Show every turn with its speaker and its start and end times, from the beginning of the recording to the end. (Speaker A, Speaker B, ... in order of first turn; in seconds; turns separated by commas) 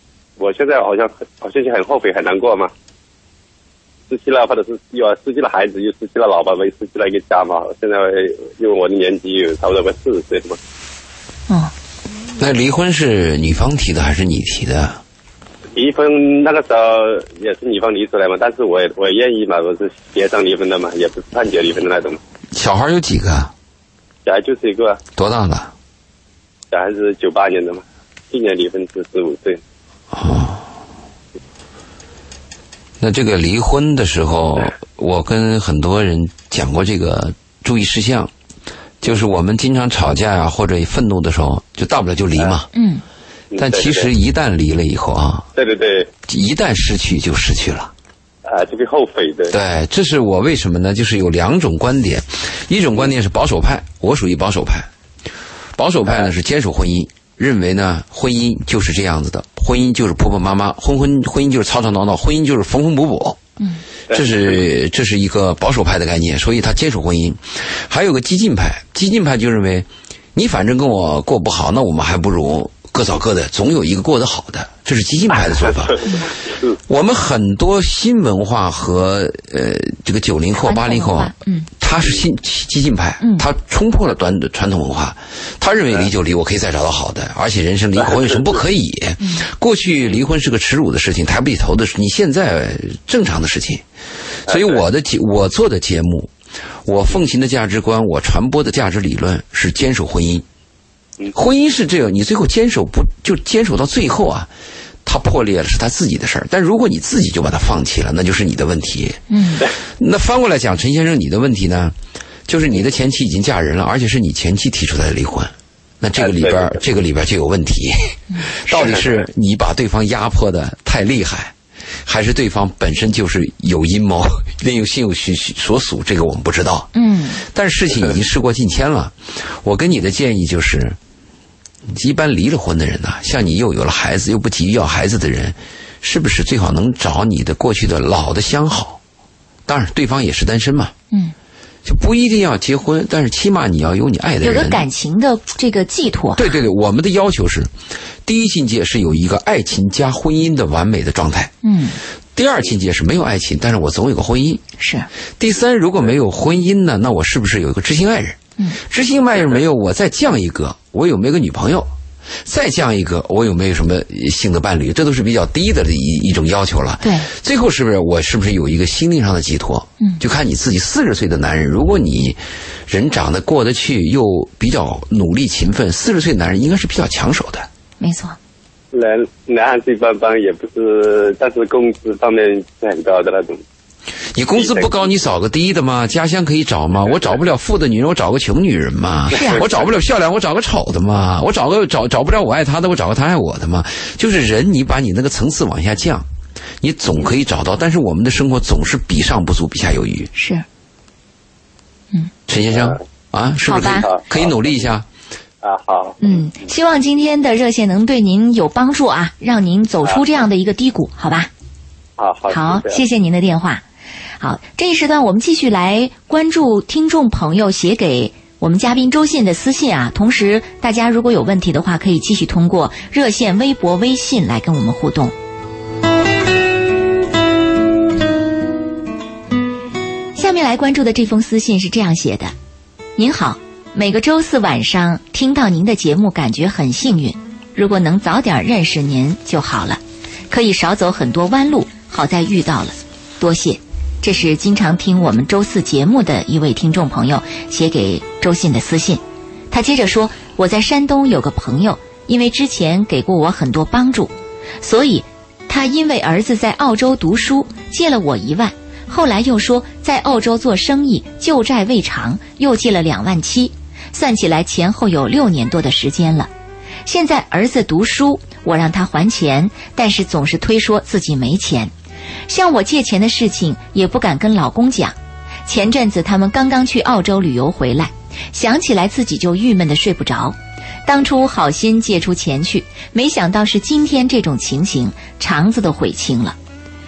Speaker A: 0.4-2.7, Speaker A: 4.1-10.6, Speaker B: 12.4-15.0, Speaker A: 15.7-22.2, Speaker B: 22.5-23.5, Speaker A: 24.2-25.0, Speaker B: 25.1-25.7, Speaker A: 26.7-29.6, Speaker B: 30.1-30.6, Speaker B: 33.0-38.3, Speaker B: 39.0-42.7, Speaker C: 42.7-43.0, Speaker A: 43.5-44.1, Speaker B: 43.5-45.5, Speaker A: 45.5-46.1, Speaker B: 46.3-47.9, Speaker A: 48.5-49.5, Speaker B: 49.5-54.9, Speaker B: 55.8-63.4, Speaker B: 64.1-93.8, Speaker C: 80.6-81.7, Speaker C: 83.2-83.5, Speaker C: 89.2-89.5, Speaker B: 94.5-96.3, Speaker B: 96.8-100.4, Speaker B: 101.3-104.5, Speaker B: 105.0-111.9, Speaker C: 109.3-109.7, Speaker B: 112.5-121.5, Speaker B: 122.0-131.0, Speaker C: 126.9-127.4, Speaker B: 131.9-139.0, Speaker B: 139.7-140.9, Speaker B: 141.8-144.8, Speaker C: 144.4-146.5, Speaker B: 146.3-147.7, Speaker B: 148.2-151.5, Speaker C: 151.6-152.0, Speaker B: 152.3-154.6, Speaker C: 154.8-155.1, Speaker B: 155.4-161.9, Speaker B: 162.4-177.7, Speaker C: 167.0-167.3, Speaker C: 178.0-178.4, Speaker A: 178.9-183.6, Speaker B: 184.3-196.2, Speaker A: 184.6-185.0, Speaker C: 189.3-189.6, Speaker A: 189.4-189.9, Speaker B: 196.8-200.3, Speaker C: 200.3-200.6, Speaker B: 202.5-205.1, Speaker C: 203.7-204.1, Speaker A: 204.1-204.4, Speaker A: 205.6-206.3, Speaker C: 206.2-211.5, Speaker A: 212.2-213.0, Speaker C: 212.5-213.8, Speaker C: 214.4-225.3, Speaker C: 230.3-232.5, Speaker C: 233.2-266.5, Speaker C: 267.1-271.9, Speaker C: 272.5-286.6